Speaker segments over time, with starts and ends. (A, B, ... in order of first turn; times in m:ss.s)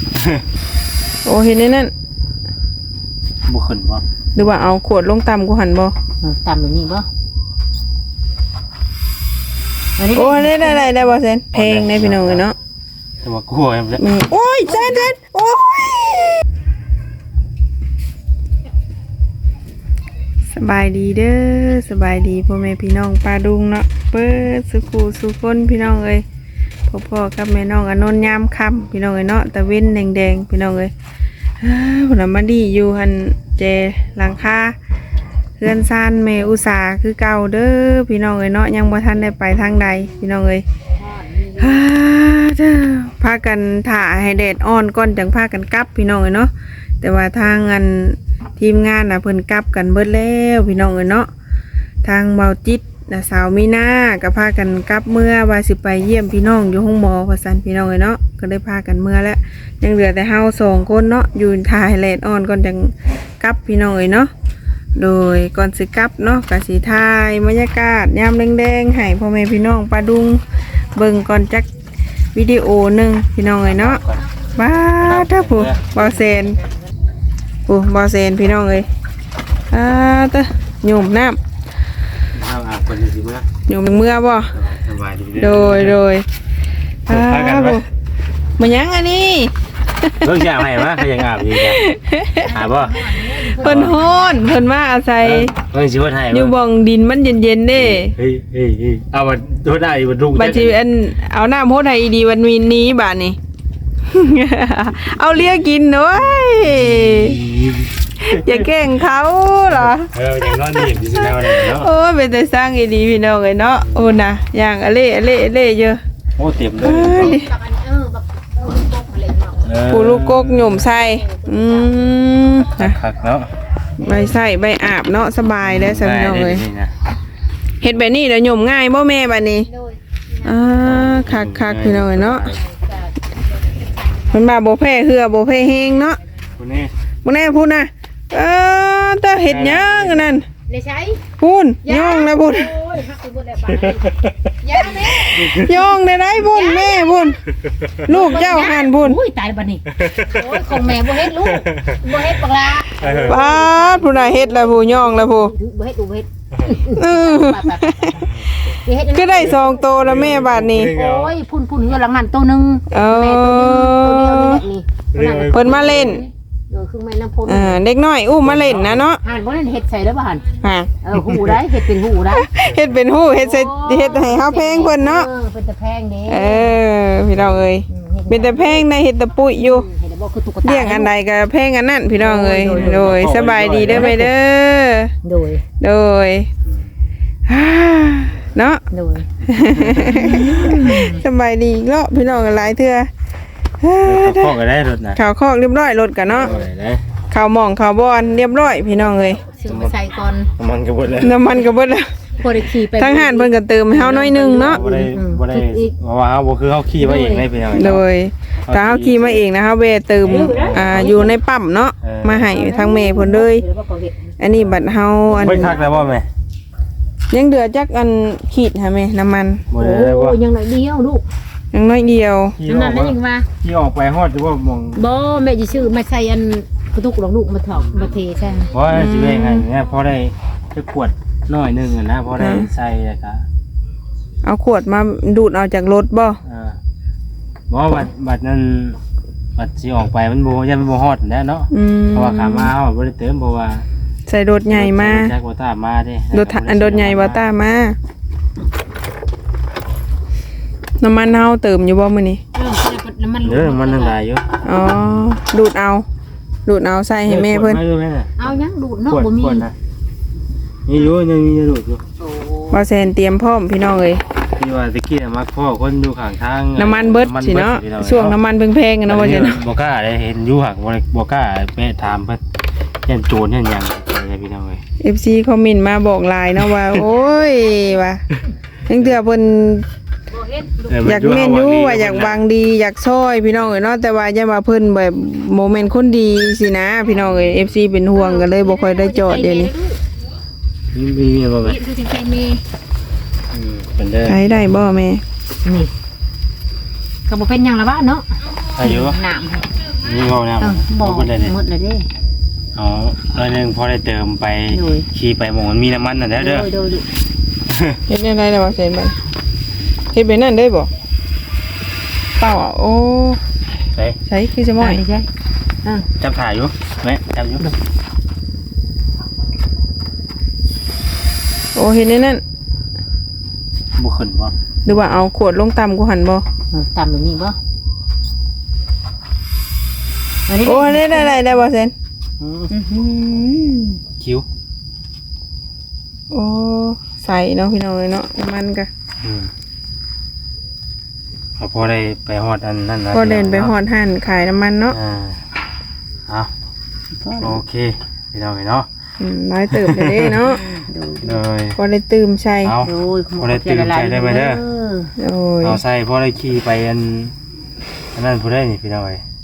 0:00.2-0:00.4 A
0:01.2-0:01.9 B
0:03.5-0:04.0 A
0:04.4-0:05.9 B
0:06.2-0:07.1 C
0:10.0-0:11.2 C
0:10.1-0:12.6 B
0:11.5-0:12.4 A
0:13.2-0:14.1 A
0:14.0-0:16.4 B
0:14.7-0:15.1 C
0:20.5-0:26.2 B
0:26.9-0:30.9 B
0:31.6-0:34.8 B
0:35.6-0:40.6 B
0:41.0-0:41.8 C
0:41.6-0:51.3 B
0:52.0-1:04.3 B
1:05.0-1:10.4 B
1:11.0-1:11.7 B
1:12.3-1:14.0 B
1:13.6-1:14.3 A
1:14.6-1:16.6 B
1:15.0-1:15.8 A
1:17.7-1:18.9 B
1:19.7-1:21.4 B
1:22.3-1:23.5 A
1:23.7-1:24.6 B
1:24.6-1:26.0 A
1:25.4-1:26.3 B
1:27.1-1:27.8 B
1:27.1-1:27.8 A
1:28.6-1:31.0 B
1:30.2-1:31.8 A
1:31.5-1:32.5 B
1:32.4-1:34.5 C
1:32.5-1:34.0 A
1:33.6-1:35.5 B
1:35.2-1:36.5 A
1:36.3-1:38.1 B
1:37.8-1:40.8 A
1:40.3-1:43.4 B
1:44.1-1:47.4 B
1:46.6-1:48.7 A
1:48.2-1:50.1 B
1:49.7-1:51.9 A
1:50.6-1:56.0 B
1:53.9-1:54.1 A
1:56.4-1:57.4 A
1:56.8-1:57.5 B
1:57.1-1:59.8 C
1:59.6-2:00.9 A
1:59.9-2:03.0 B
2:00.8-2:02.0 C
2:02.7-2:03.5 A
2:04.0-2:06.6 B
2:04.0-2:04.4 C
2:05.6-2:06.9 A
2:07.8-2:09.7 B
2:09.7-2:10.5 C
2:10.4-2:12.5 B
2:10.8-2:12.6 A
2:12.4-2:14.4 C
2:14.3-2:16.2 B
2:16.6-2:16.9 A
2:17.2-2:20.4 B
2:19.4-2:20.3 A
2:20.7-2:21.2 C
2:21.4-2:22.7 B
2:21.8-2:25.6 C
2:25.0-2:27.4 B
2:25.4-2:25.9 A
2:26.4-2:27.3 C
2:28.1-2:29.2 B
2:28.1-2:39.7 C
2:29.9-2:32.0 A
2:33.0-2:33.5 A
2:33.2-2:35.5 B
2:36.9-2:38.3 B
2:38.2-2:38.5 A
2:39.1-2:41.0 B
2:39.4-2:41.3 A
2:40.8-2:47.8 C
2:42.9-2:44.6 B
2:45.1-2:46.2 A
2:45.5-2:46.2 B
2:47.5-2:49.2 B
2:48.4-2:49.1 A
2:49.2-2:50.5 C
2:50.6-2:50.9 B
2:51.0-2:52.5 C
2:51.1-2:51.6 A
2:52.3-2:55.3 B
2:52.7-2:53.0 A
2:53.4-2:56.8 C
2:56.3-2:59.9 B
2:57.4-2:57.6 A
2:57.9-2:58.9 C
2:59.4-3:01.1 C
3:00.6-3:05.1 B
3:02.2-3:03.1 C
3:02.7-3:04.3 A
3:03.9-3:04.2 C
3:05.2-3:05.6 C
3:05.8-3:06.5 B
3:07.5-3:08.8 B
3:08.9-3:09.3 C
3:09.5-3:13.1 B
3:09.6-3:10.3 A
3:10.0-3:11.2 C
3:13.8-3:14.5 B
3:14.0-3:15.2 A
3:15.2-3:16.6 B
3:16.3-3:17.0 A
3:17.3-3:19.4 B
3:18.9-3:20.5 C
3:19.7-3:19.9 A
3:20.6-3:21.4 A
3:21.2-3:22.1 B
3:22.4-3:26.0 C
3:23.0-3:24.8 B
3:24.6-3:28.0 A
3:27.0-3:27.5 C
3:27.7-3:33.6 B
3:28.6-3:29.4 A
3:30.2-3:31.3 A
3:30.2-3:31.4 C
3:32.0-3:32.5 A
3:32.5-3:34.3 C
3:34.4-3:35.8 B
3:35.3-3:36.3 A
3:35.4-3:36.0 C
3:37.3-3:39.6 B
3:39.7-3:40.4 A
3:39.8-3:41.2 C
3:41.7-3:42.6 B
3:42.6-3:45.0 A
3:42.6-3:43.5 C
3:45.0-3:48.7 C
3:48.7-3:53.4 A
3:48.9-3:49.7 B
3:52.4-3:52.7 B
3:54.4-3:56.4 B
3:56.4-3:56.8 A
3:57.7-3:59.0 A
3:59.6-4:03.8 A
4:01.7-4:02.7 B
4:04.3-4:05.4 B
4:04.7-4:07.5 A
4:06.3-4:08.0 B
4:11.0-4:12.4 B
4:12.6-4:14.2 C
4:13.4-4:14.5 A
4:14.6-4:16.1 B
4:16.7-4:17.8 B
4:17.3-4:18.5 A
4:18.4-4:19.7 C
4:19.1-4:19.7 A
4:20.9-4:22.0 A
4:22.2-4:22.8 C
4:22.7-4:24.2 B
4:24.6-4:28.4 A
4:26.8-4:29.6 B
4:29.1-4:32.4 A
4:33.0-4:34.8 A
4:35.0-4:38.2 B
4:36.6-4:37.0 A
4:38.9-4:39.9 B
4:40.9-4:42.4 A
4:41.0-4:49.7 B
4:48.2-4:50.0 C
4:50.9-4:51.8 A
4:51.6-4:52.6 C
4:53.5-4:54.5 A
4:54.2-4:55.2 B
4:55.6-4:55.9 C
4:57.3-4:59.7 C
4:58.8-4:59.2 A
5:00.0-5:01.5 A
5:00.6-5:02.1 C
5:02.8-5:06.7 A
5:04.7-5:05.1 C
5:06.4-5:07.1 C
5:07.7-5:08.0 A
5:08.1-5:09.2 B
5:10.1-5:10.9 B
5:12.4-5:13.4 B
5:14.3-5:15.0 B
5:14.8-5:15.3 C
5:16.2-5:17.7 A
5:21.8-5:22.4 B
5:24.0-5:24.5 A
5:24.8-5:26.4 B
5:26.7-5:27.6 C
5:30.5-5:31.6 C
5:30.6-5:31.9 B
5:32.4-5:32.7 A
5:32.7-5:34.0 C
5:34.2-5:34.4 A
5:36.3-5:38.9 B
5:39.2-5:39.5 A
5:41.6-5:43.7 A
5:43.1-5:45.0 B
5:44.9-5:45.4 A
5:47.2-5:47.6 C
5:47.4-5:48.9 A
5:49.2-5:50.6 B
5:49.7-5:50.5 A
5:50.5-5:51.4 C
5:51.2-5:51.8 A
5:51.8-5:52.8 B
5:52.6-5:54.6 A
5:52.8-5:55.1 C
5:55.2-5:55.8 B
5:55.6-5:57.3 A
5:58.2-5:59.2 A